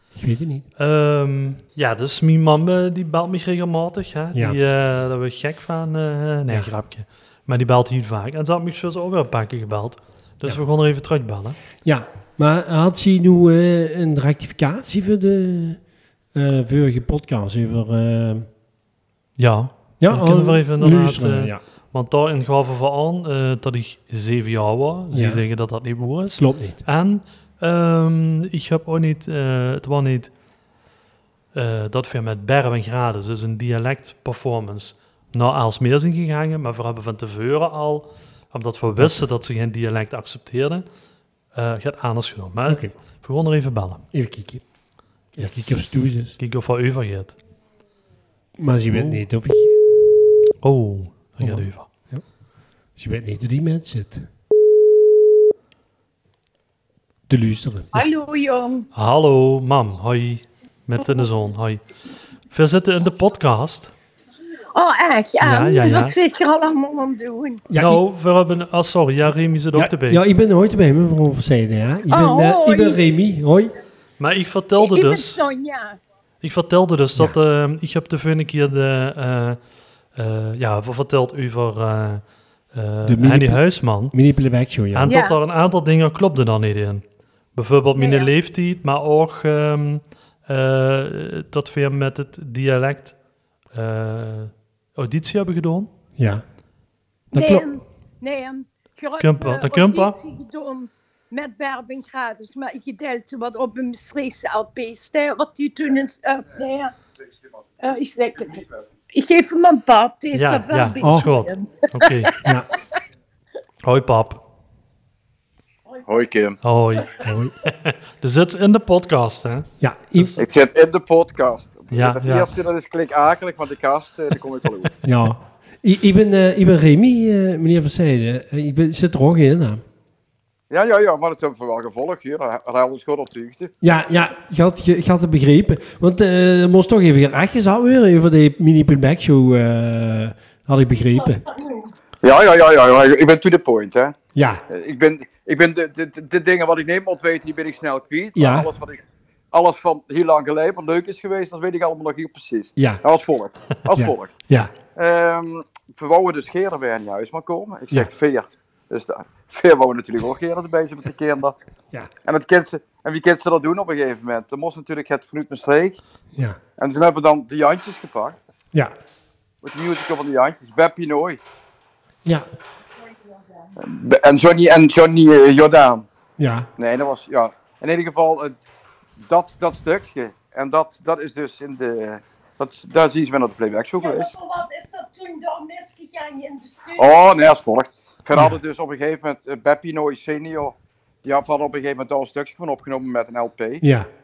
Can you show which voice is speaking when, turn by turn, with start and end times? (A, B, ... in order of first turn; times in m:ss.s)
0:00.2-0:00.7 A
0:00.8-0:11.6 B
0:04.3-0:04.6 A
0:11.8-0:15.8 A
0:16.3-0:18.5 A
0:19.4-0:30.3 B
0:20.0-0:21.6 A
0:25.1-0:25.4 A
0:26.4-0:26.8 A
0:31.5-0:40.8 B
0:39.0-0:39.3 A
0:41.5-0:44.0 B
0:42.7-0:42.9 A
0:44.1-0:44.6 A
0:45.4-0:46.4 A
0:45.4-0:47.4 B
0:48.6-0:50.0 A
0:48.9-0:49.2 B
0:50.6-0:51.9 B
0:51.4-0:52.2 A
0:53.0-0:54.3 A
0:57.3-0:58.1 A
0:57.9-0:58.9 C
0:59.0-1:01.8 B
1:02.5-1:03.9 B
1:04.7-1:07.6 C
1:05.4-1:06.2 B
1:07.7-1:08.0 A
1:07.8-1:10.2 B
1:09.7-1:13.7 A
1:12.1-1:13.0 C
1:14.2-1:15.4 B
1:14.8-1:16.0 C
1:16.4-1:19.6 B
1:20.2-1:24.1 B
1:23.0-1:25.2 A
1:24.9-1:27.0 B
1:25.1-1:25.4 C
1:27.6-1:33.2 B
1:28.0-1:28.3 C
1:33.7-1:35.9 B
1:36.2-1:36.4 A
1:37.3-1:37.7 A
1:37.3-1:46.9 C
1:39.2-1:40.2 B
1:47.8-1:52.6 C
1:50.3-1:52.3 B
1:51.0-1:51.3 A
1:52.4-1:52.7 A
1:53.8-1:54.4 B
1:56.1-1:56.6 D
1:56.6-2:00.4 B
1:57.2-1:57.6 A
1:59.8-2:00.3 A
2:00.4-2:04.9 D
2:01.9-2:02.5 B
2:05.0-2:09.8 A
2:10.7-2:13.7 D
2:13.8-2:21.4 A
2:21.1-2:21.9 C
2:22.2-2:24.2 D
2:24.3-2:24.6 A
2:24.7-2:34.3 D
2:28.4-2:28.7 A
2:32.8-2:33.0 A
2:33.9-2:34.7 A
2:35.0-2:41.6 D
2:42.2-2:46.0 D
2:46.8-2:48.4 D
2:49.6-2:51.4 D
2:53.0-2:53.7 C
2:53.8-2:56.1 D
2:56.4-2:56.7 A
2:56.8-2:58.6 D
2:59.2-3:04.3 D
3:04.0-3:07.1 C
3:07.0-3:13.8 D
3:13.8-3:14.1 A